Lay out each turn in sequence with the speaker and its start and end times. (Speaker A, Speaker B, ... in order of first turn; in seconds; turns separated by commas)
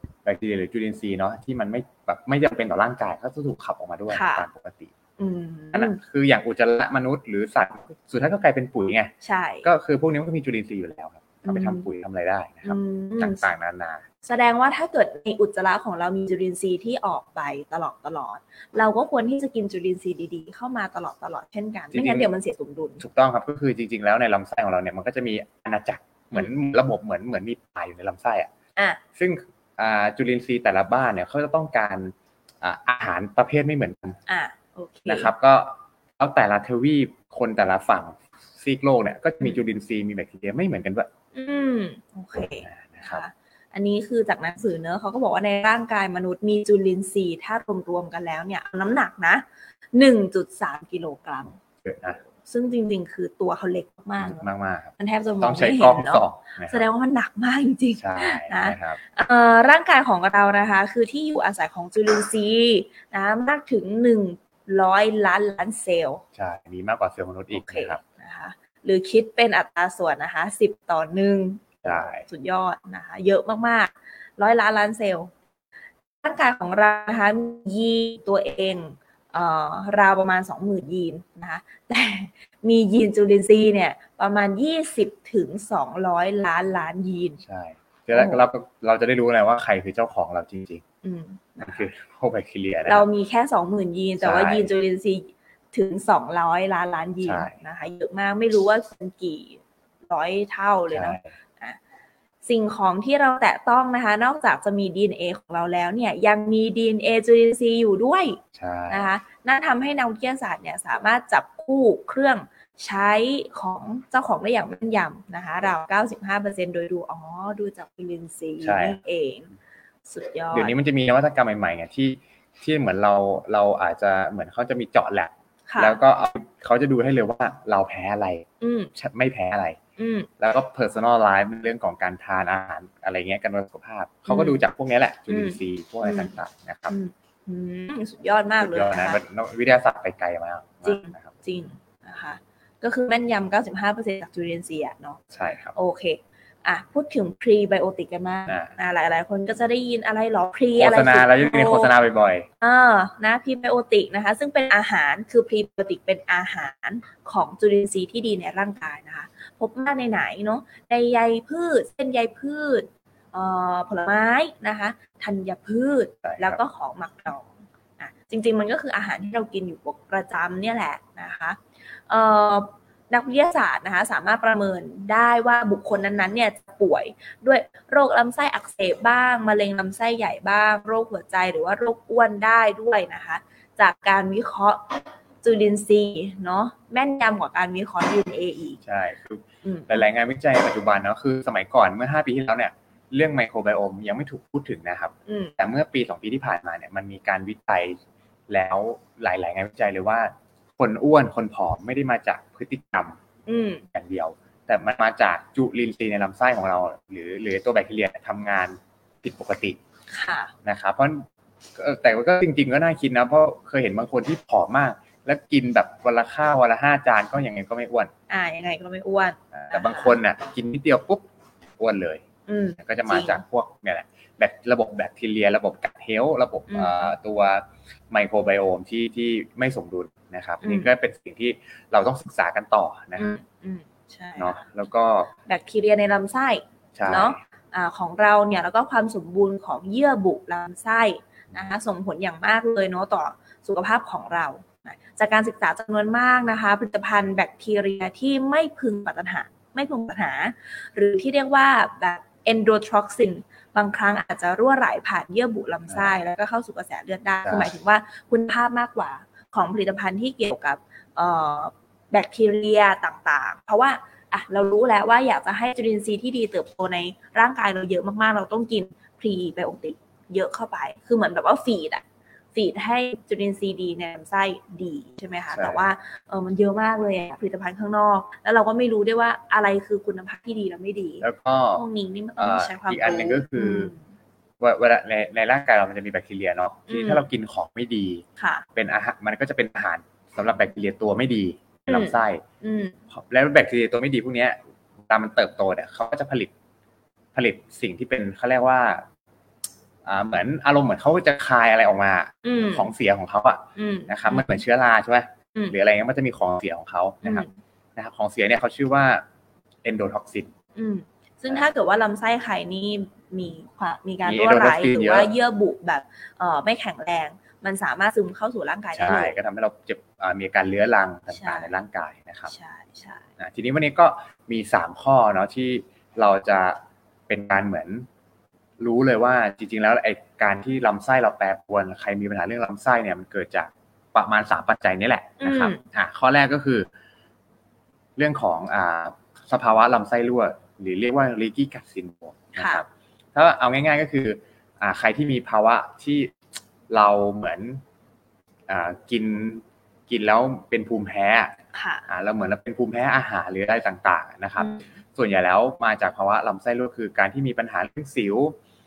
Speaker A: 0.2-4.9, Speaker B: 4.1-4.5, Speaker B: 5.2-6.0, Speaker A: 5.7-9.1, Speaker B: 9.2-9.7, Speaker A: 9.6-14.0, Speaker B: 11.4-11.9, Speaker B: 12.7-13.5, Speaker B: 14.2-23.0, Speaker A: 21.9-22.3, Speaker A: 23.0-28.5, Speaker A: 29.1-34.2, Speaker B: 34.3-35.3, Speaker A: 35.1-41.1, Speaker B: 41.4-51.6, Speaker A: 42.6-43.2, Speaker A: 51.8-52.2, Speaker B: 52.4-66.2, Speaker A: 54.2-56.8, Speaker A: 58.0-59.0, Speaker A: 66.3-68.0, Speaker B: 67.5-75.3, Speaker A: 71.8-72.2, Speaker B: 76.2-87.4, Speaker A: 87.4-90.8, Speaker B: 88.1-88.5, Speaker B: 91.0-91.9, Speaker A: 91.6-93.1, Speaker B: 92.9-101.8, Speaker A: 94.2-94.7, Speaker A: 97.2-97.5, Speaker A: 100.9-101.3, Speaker B: 102.5-119.5, Speaker A: 108.5-109.1, Speaker A: 118.6-119.0, Speaker B: 120.1-120.8, Speaker A: 120.5-129.8, Speaker B: 125.7-126.0, Speaker B: 128.6-128.9, Speaker B: 130.0-130.3, Speaker A: 130.4-136.9, Speaker B: 134.3-134.6, Speaker B: 135.3-136.3, Speaker B: 136.9-139.2, Speaker A: 138.6-141.3, Speaker B: 140.8-145.2, Speaker A: 145.3-145.8, Speaker B: 145.8-151.9, Speaker A: 150.8-152.5, Speaker B: 152.6-188.8, Speaker A: 166.2-166.6, Speaker A: 188.8-203.2, Speaker B: 189.7-190.1, Speaker B: 195.3-195.6, Speaker B: 203.5-203.8, Speaker A: 203.9-209.8, Speaker B: 210.1-210.5, Speaker A: 210.6-211.2, Speaker A: 211.8-218.1, Speaker B: 218.3-220.2, Speaker A: 219.5-221.3, Speaker A: 221.8-222.2, Speaker B: 222.5-223.4, Speaker A: 222.8-233.4, Speaker B: 226.7-227.1, Speaker B: 230.6-230.9, Speaker B: 233.2-234.6, Speaker A: 234.4-235.3, Speaker B: 235.5-272.0, Speaker A: 237.0-237.4, Speaker A: 257.4-257.7, Speaker B: 272.6-284.0, Speaker A: 275.5-275.9, Speaker A: 281.2-281.8, Speaker A: 282.4-283.9, Speaker A: 284.6-288.2, Speaker B: 286.9-287.3, Speaker B: 288.4-288.7, Speaker A: 288.8-292.4, Speaker B: 291.9-293.0, Speaker A: 293.1-294.6, Speaker A: 295.1-296.5, Speaker A: 297.3-299.1, Speaker A: 300.1-307.4, Speaker B: 302.4-302.9, Speaker B: 303.8-304.6, Speaker B: 307.2-307.5, Speaker A: 308.0-309.2, Speaker A: 309.8-310.5, Speaker B: 310.8-319.4, Speaker A: 314.2-315.3, Speaker A: 318.9-322.5, Speaker B: 321.3-321.7, Speaker B: 322.5-323.3, Speaker A: 323.4-328.1, Speaker A: 328.8-336.9, Speaker B: 335.4-335.8, Speaker A: 338.2-346.4, Speaker B: 342.6-342.8, Speaker A: 346.9-347.8, Speaker A: 348.7-351.6, Speaker B: 351.7-352.1, Speaker A: 352.1-358.6, Speaker B: 354.6-354.9